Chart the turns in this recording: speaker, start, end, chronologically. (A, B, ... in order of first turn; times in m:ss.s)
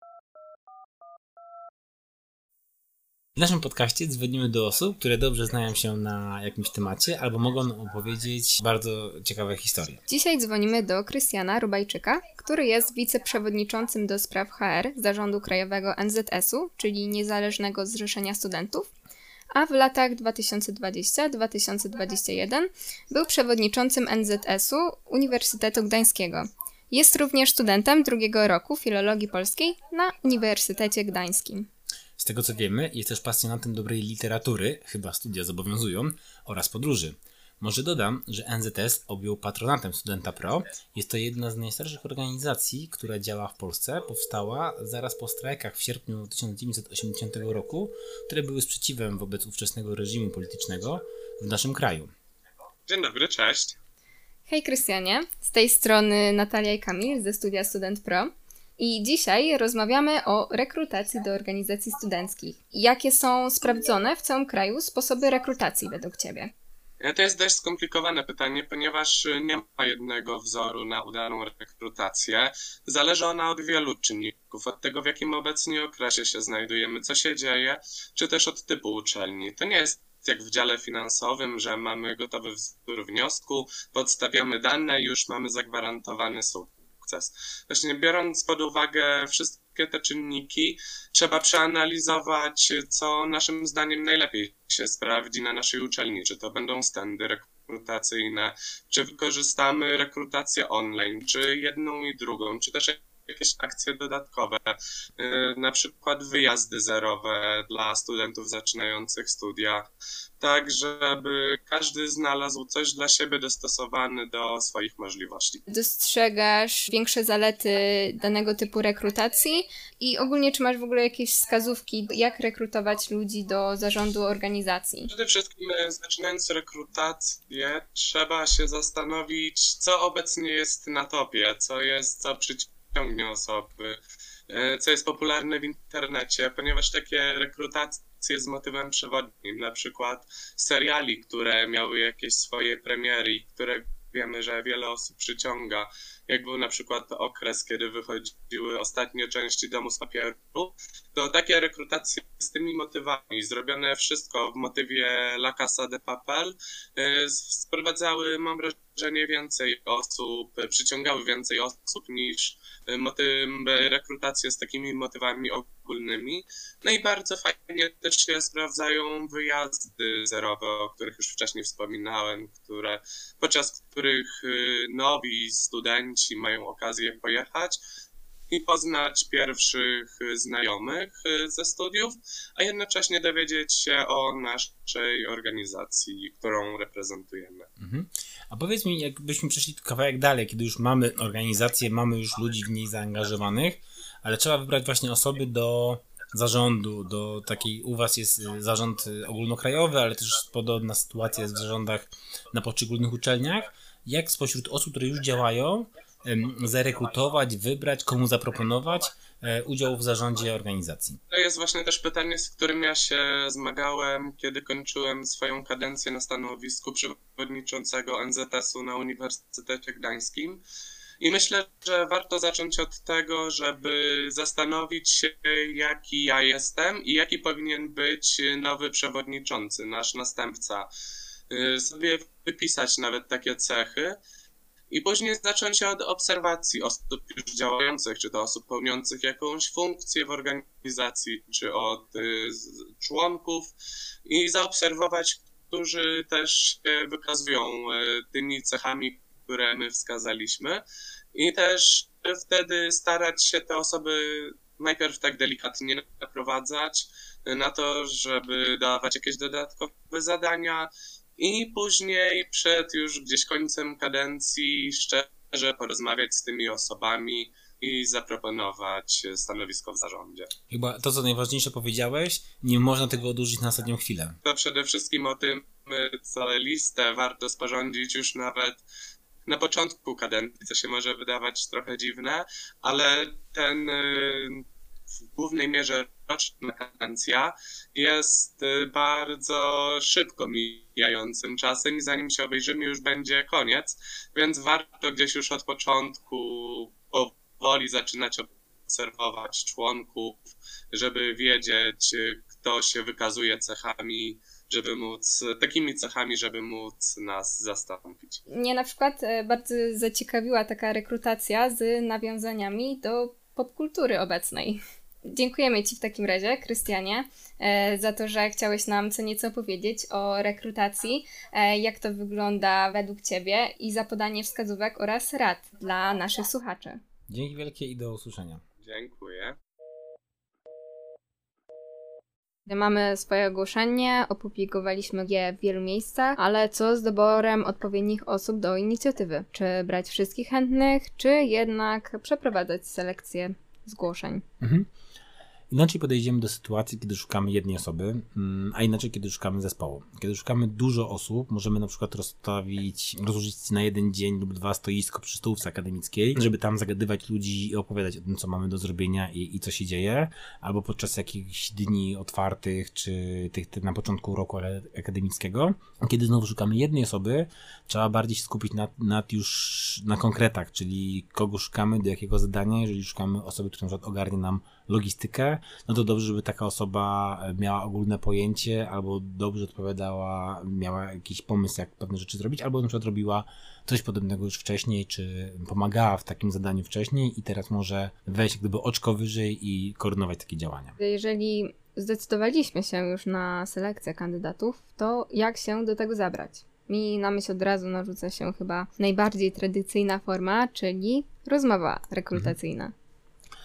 0:03.4-0:10.0 A
0:10.1-0:18.9 B
0:19.5-0:31.7 B
0:32.2-0:52.1 A
0:52.9-0:53.8 C
0:54.5-1:06.5 B
1:07.0-1:49.9 C
1:50.4-1:55.6 C
1:55.7-2:05.1 B
2:05.1-2:14.0 C
2:14.5-2:57.8 C
2:58.5-3:07.7 C
3:07.8-3:31.2 A
3:31.3-3:40.6 C
3:41.2-3:50.9 C
3:51.5-3:54.2 C
3:54.9-4:03.7 C
4:04.3-4:10.8 C
4:11.3-4:30.5 C
4:30.7-4:34.4 A
4:34.4-4:38.8 C
4:39.5-4:44.6 C
4:45.2-5:08.4 C
5:08.5-5:27.0 B
5:27.3-5:28.6 A
5:28.8-5:29.6 C
5:32.7-5:44.4 B
5:44.6-5:44.9 A
5:45.7-6:31.0 A
6:31.0-6:42.9 B